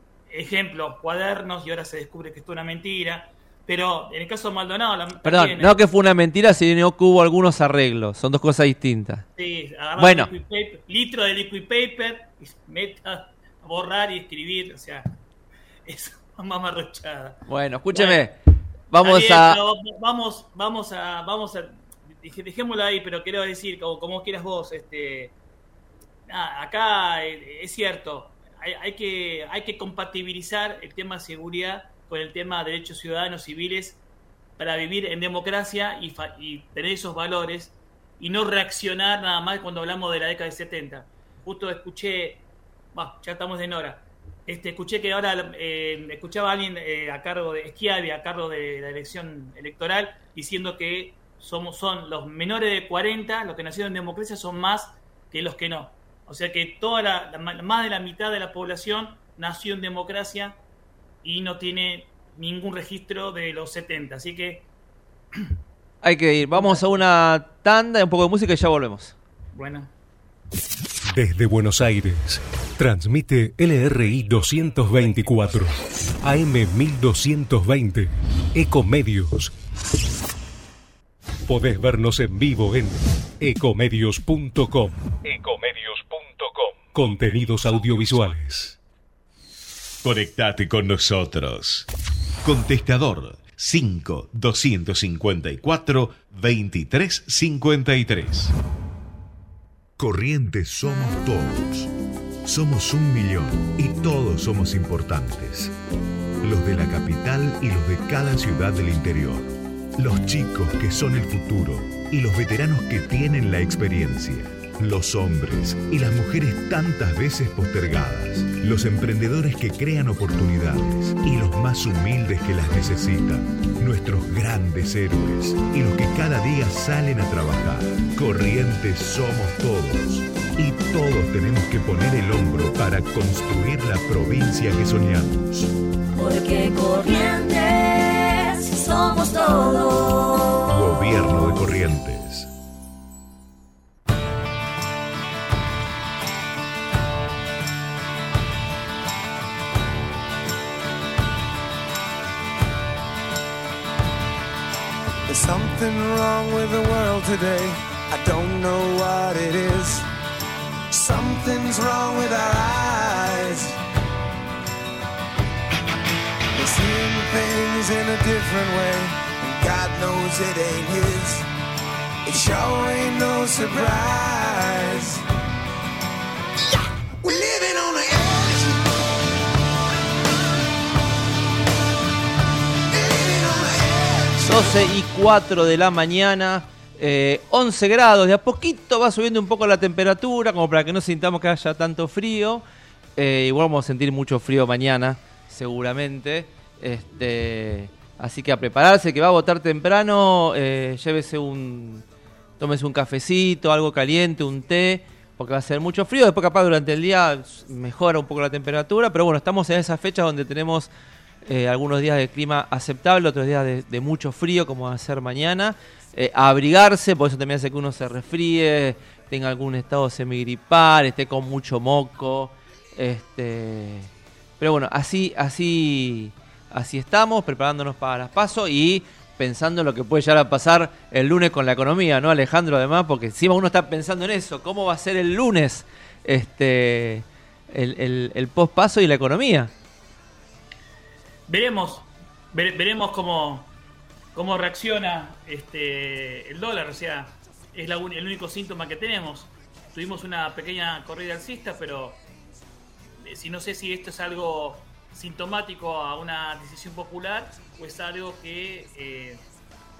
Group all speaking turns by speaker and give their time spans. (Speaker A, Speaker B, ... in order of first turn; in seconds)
Speaker A: 0.3-5.8, 9.4-15.1, 15.9-17.4, 17.9-18.2, 19.0-25.3, 26.3-34.0, 34.6-42.4, 42.9-60.6, 61.2-64.7, 66.5-67.0, 69.5-69.9, 241.5-243.7, 244.3-252.2, 253.2-259.4
Speaker B: 5.2-9.2, 10.0-10.3, 17.5-18.4, 18.9-19.6, 66.0-69.2, 184.4-192.6, 193.2-202.1, 202.6-210.9, 211.4-239.7
Speaker C: 71.1-79.5, 81.5-88.8
Speaker D: 90.0-91.9, 92.4-98.5
Speaker E: 100.0-101.9, 102.5-105.7, 106.4-135.7, 140.7-142.5
Speaker F: 136.2-140.7
Speaker G: 155.3-160.1, 160.9-163.8, 166.6-171.5, 172.2-175.2, 177.2-178.8, 182.9-184.7